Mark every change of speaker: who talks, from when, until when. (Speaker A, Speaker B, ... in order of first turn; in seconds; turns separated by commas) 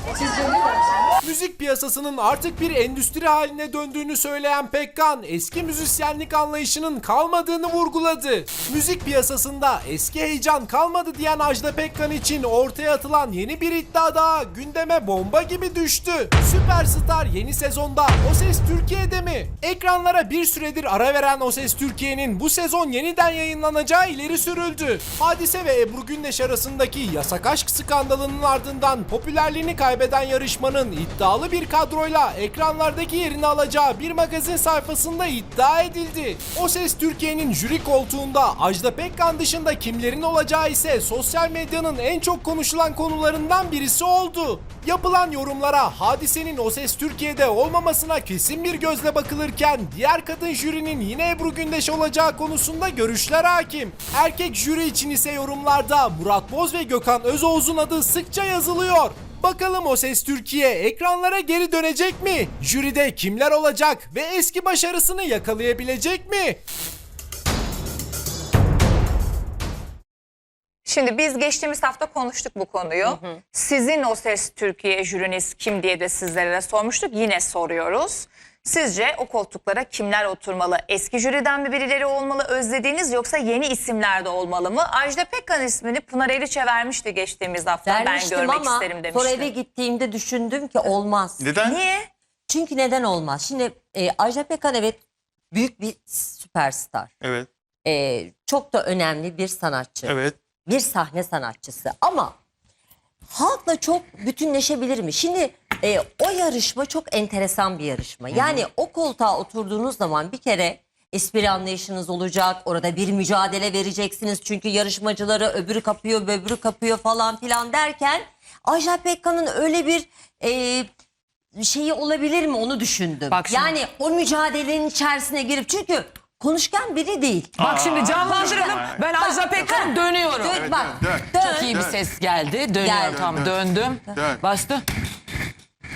Speaker A: 1.2-66.6, Speaker B: 70.8-89.5, Speaker C: 73.0-73.4, Speaker C: 87.8-91.4, Speaker D: 91.4-91.8, Speaker B: 91.6-92.1, Speaker C: 92.5-95.0, Speaker C: 95.5-97.1, Speaker D: 97.2-97.5, Speaker C: 97.8-102.3, Speaker D: 100.0-100.4, Speaker C: 103.3-120.9, Speaker D: 108.3-108.6, Speaker C: 121.5-127.6, Speaker E: 123.3-123.7, Speaker D: 127.6-129.0, Speaker E: 127.6-130.6, Speaker C: 128.2-131.8, Speaker D: 129.6-132.0, Speaker E: 131.4-134.8, Speaker C: 132.8-133.2, Speaker D: 133.1-133.6, Speaker D: 134.1-134.4